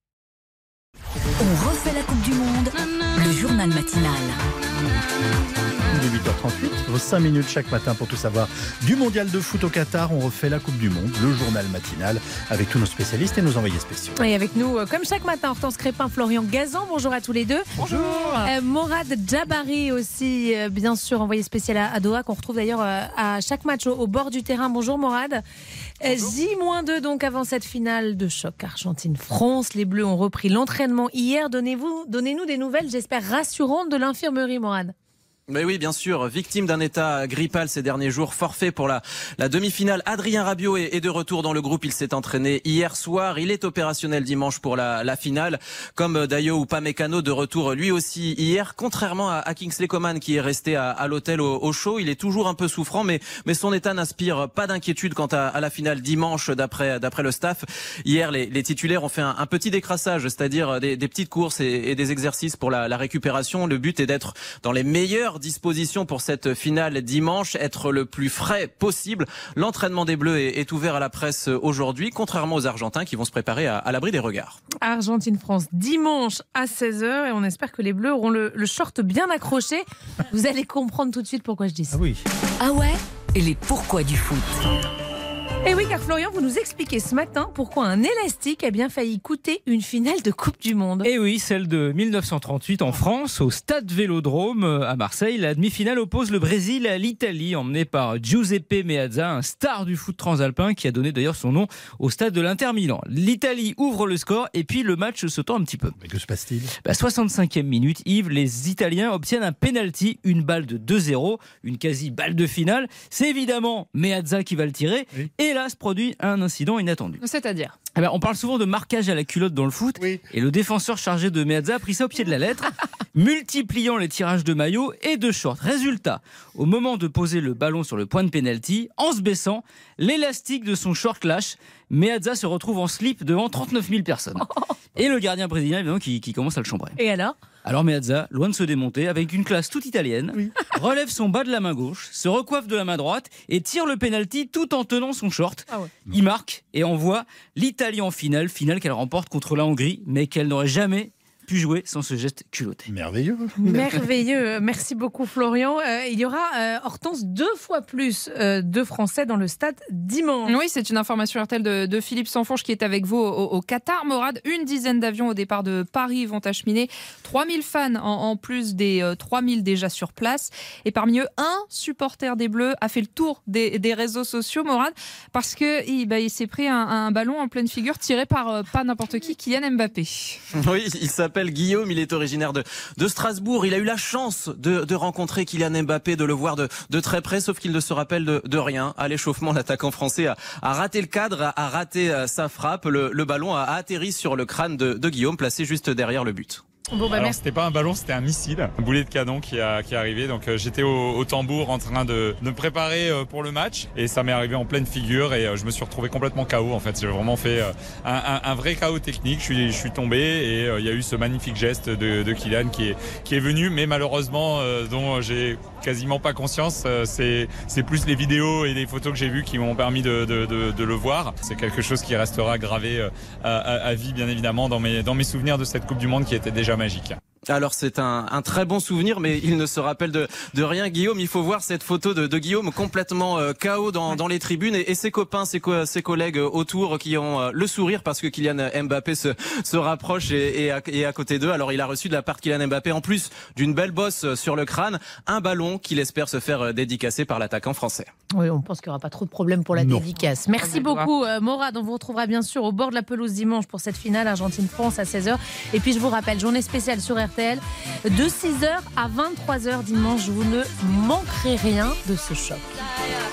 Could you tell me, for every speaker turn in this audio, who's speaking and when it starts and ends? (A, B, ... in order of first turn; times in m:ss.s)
0:01.4-0:04.4 A
0:05.9-0:14.2 B
0:14.2-0:17.7 C
0:17.8-0:18.3 D
0:18.3-0:25.4 C
0:26.0-0:34.9 C
0:35.5-1:14.6 E
1:14.8-1:22.0 C
1:21.9-1:22.2 B
1:22.6-1:24.5 A
1:25.6-1:31.1 C
1:31.0-1:45.9 D
1:46.0-1:46.7 B
1:46.8-1:57.2 D
1:57.2-1:57.8 F
1:57.9-2:17.0 D
2:17.0-2:17.4 C
2:17.6-2:32.9 D
2:32.9-2:33.9 B
2:33.6-2:40.5 C
2:40.5-3:00.4 F
3:00.5-3:16.6 E
3:16.9-3:17.4 C
3:17.1-3:47.2 G
3:47.5-4:08.1 E
4:08.4-4:22.8 C
4:09.8-4:10.0 B
4:10.6-4:11.1 F